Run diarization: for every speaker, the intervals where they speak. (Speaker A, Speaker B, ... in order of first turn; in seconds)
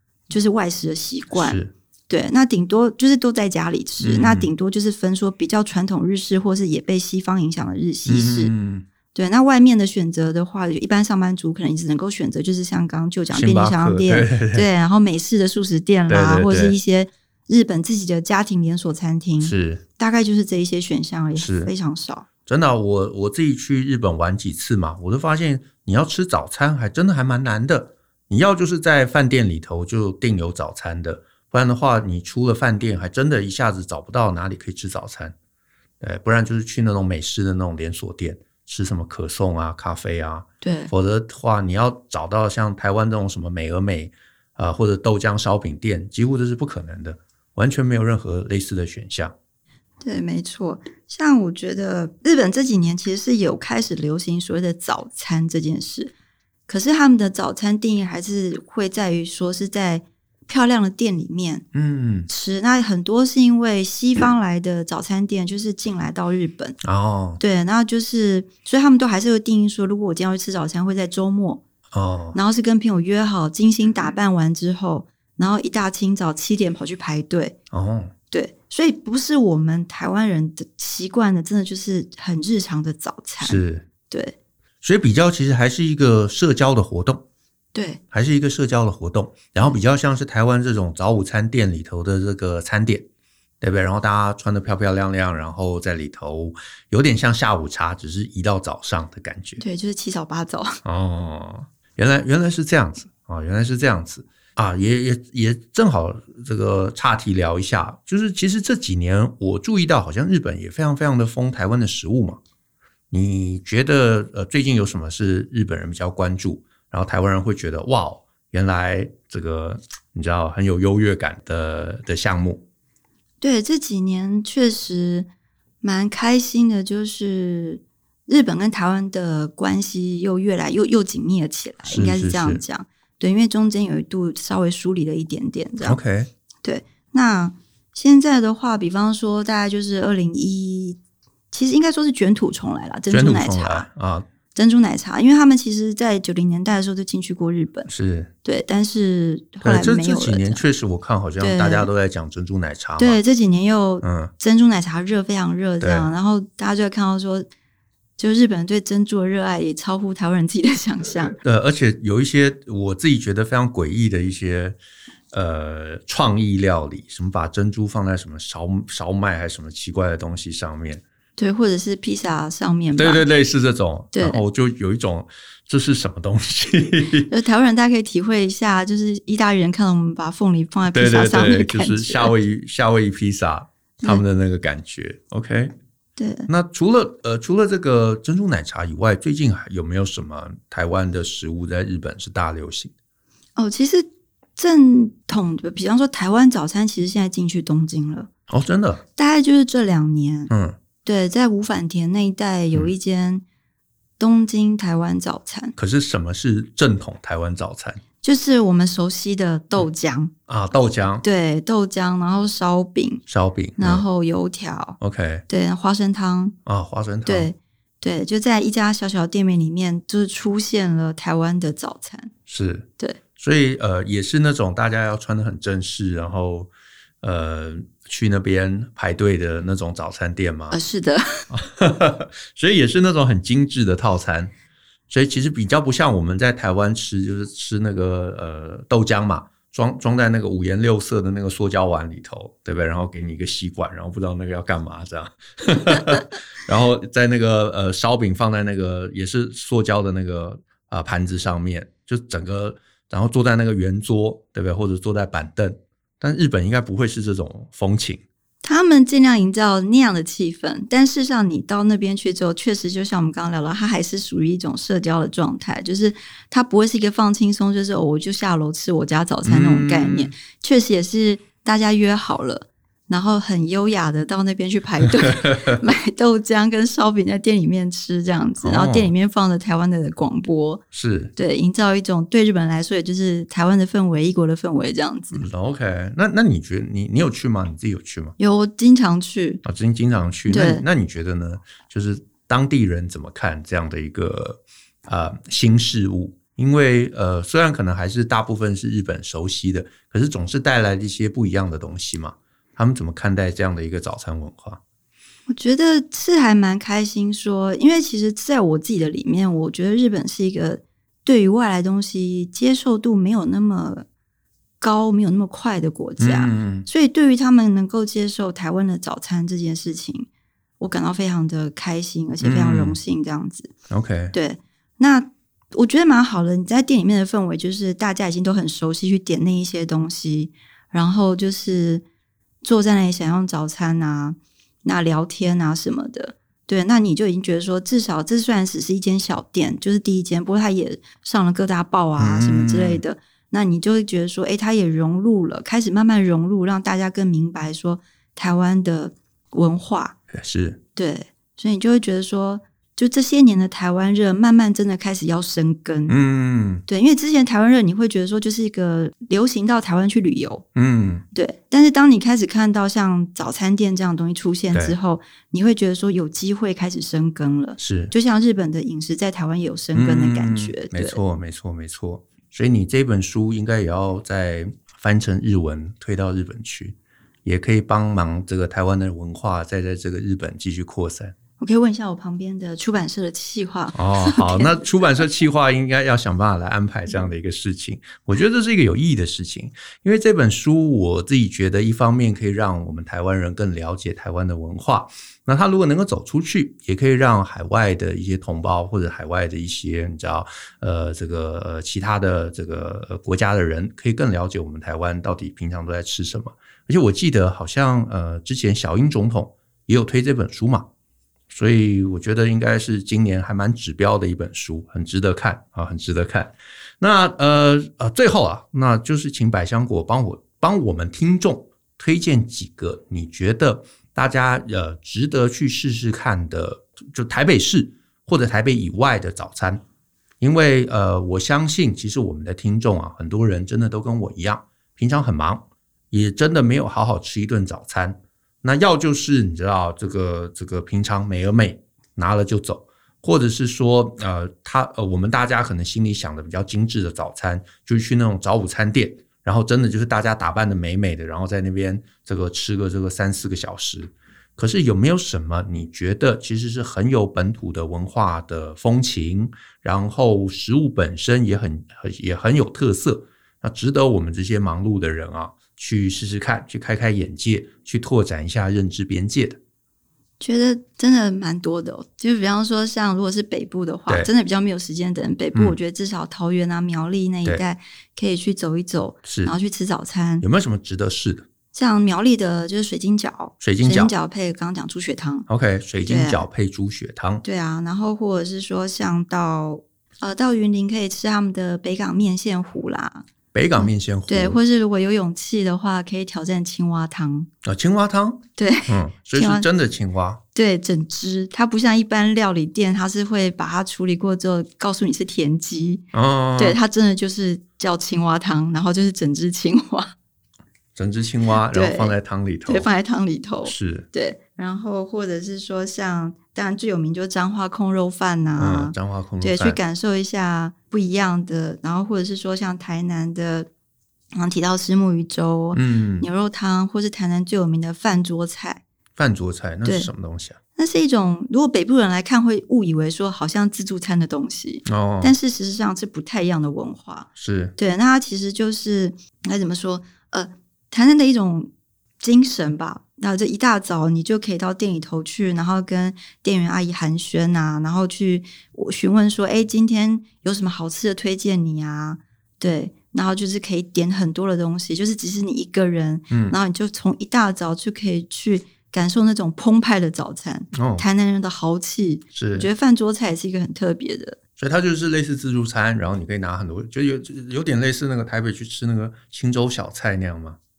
Speaker A: 0.3-8.5, 9.1-22.3, 40.6-40.9, 50.0-56.1, 56.7-61.6, 62.3-66.8, 67.4-71.6, 72.3-77.5, 78.3-84.3, 87.7-88.0, 99.6-100.8, 123.4-125.3, 125.8-136.0, 136.6-141.0, 141.5-143.9, 144.5-147.9, 148.4-150.6, 151.4-151.9, 153.0-157.5, 158.2-161.3, 171.4-173.2, 174.1-174.4, 177.3-182.3, 186.2-186.5, 193.6-198.3, 199.2-200.5, 201.0-203.4, 204.2-205.7, 208.2-210.3, 211.2-213.2, 213.8-216.5, 217.2-222.3, 230.7-231.5, 258.6-280.8, 281.4-285.4, 288.4-289.6, 290.5-290.8, 305.5-314.1, 314.8-320.3, 320.8-323.7, 324.3-332.0, 332.6-350.1, 350.9-356.2, 356.9-360.6, 361.3-371.2, 381.6-384.8, 470.4-480.4, 481.7-485.5, 486.1-486.4, 487.4-493.2, 493.8-497.5, 498.6-499.6, 500.5-506.0, 506.6-510.1, 511.7-512.1, 512.7-523.7, 524.3-528.8, 529.8-530.1, 530.8-541.7, 542.2-564.4
Speaker B: 1.3-1.7, 4.0-4.5, 8.1-8.8, 13.3-14.7, 16.1-16.8, 19.4-19.8, 21.4-21.7, 22.4-35.3, 36.0-49.3, 61.7-62.3, 66.8-67.4, 71.9-72.4, 77.7-78.1, 83.4-83.9, 84.8-87.2, 88.1-93.1, 93.6-99.6, 100.8-112.4, 113.1-122.6, 131.8-132.6, 135.8-136.3, 143.1-144.2, 147.9-148.3, 149.6-153.2, 154.0-154.3, 155.8-156.1, 161.4-164.8, 165.3-171.0, 172.9-177.3, 180.9-185.7, 186.5-192.9, 198.5-199.0, 200.5-200.8, 205.8-208.0, 210.5-211.2, 213.3-214.0, 215.0-215.4, 216.7-217.5, 222.5-226.7, 227.2-230.8, 231.5-234.5, 235.1-258.2, 269.4-270.3, 275.4-275.8, 278.6-279.1, 280.9-281.3, 285.3-288.3, 289.6-304.8, 316.2-316.9, 322.4-323.0, 323.9-324.3, 342.2-343.0, 350.3-350.8, 356.1-356.8, 360.7-361.2, 367.8-368.1, 369.9-381.3, 383.9-410.9, 411.5-429.8, 430.4-469.6, 479.2-479.5, 480.4-481.5, 483.6-484.1, 485.5-487.4, 493.5-494.6, 497.6-500.4, 506.1-506.8, 510.9-512.9, 513.6-514.1, 518.6-519.8, 525.7-526.3, 529.1-530.6, 534.9-535.4, 537.4-537.7, 556.3-556.5, 560.7-561.0, 562.3-562.7, 564.6-570.6